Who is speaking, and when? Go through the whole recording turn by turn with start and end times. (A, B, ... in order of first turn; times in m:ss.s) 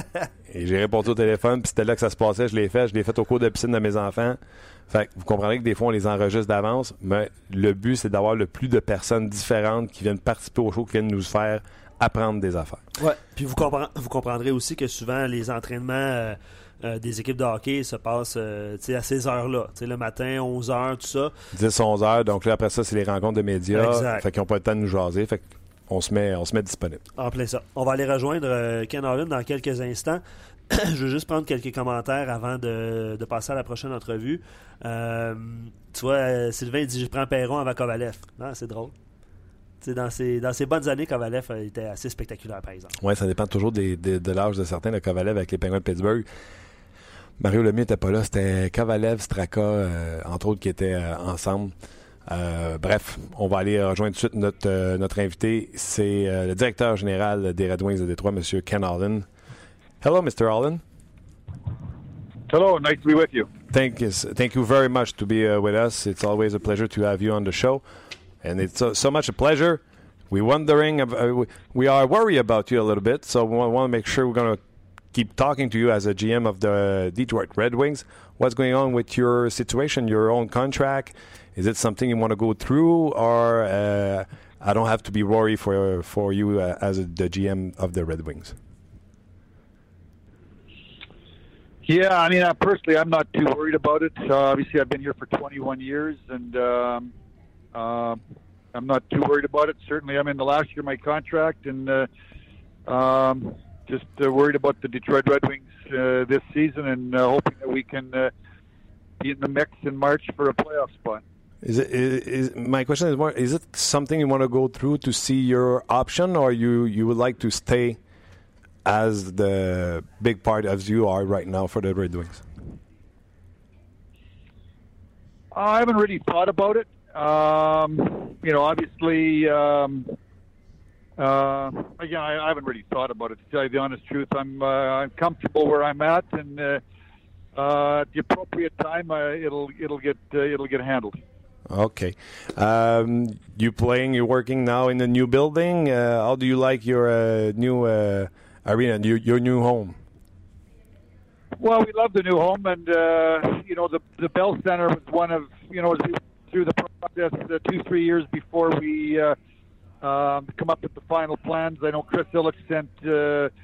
0:00.5-0:04.4 A
0:04.9-0:12.8 A
0:13.0-0:21.3 B
0:21.5-0:27.0 A
0:23.7-0:24.2 B
0:27.2-0:38.9 B
0:39.8-0:42.9 B
0:43.0-0:46.3 A
0:47.4-0:51.7 A
0:52.3-0:59.3 A
1:00.0-1:00.8 A
1:02.5-1:03.5 C
1:03.7-1:07.8 A
1:08.4-1:14.6 A
1:15.1-1:28.6 A
1:31.8-1:37.1 C
1:37.7-1:38.2 C
1:38.7-1:42.1 C
1:42.9-1:48.3 C
1:49.2-1:51.2 C
1:51.6-1:58.0 A
1:58.8-2:02.4 A
2:05.5-2:10.2 C
2:11.2-2:16.8 C
2:17.6-2:21.2 C
2:21.7-2:30.0 A
2:31.6-2:39.4 C
2:40.0-2:43.5 C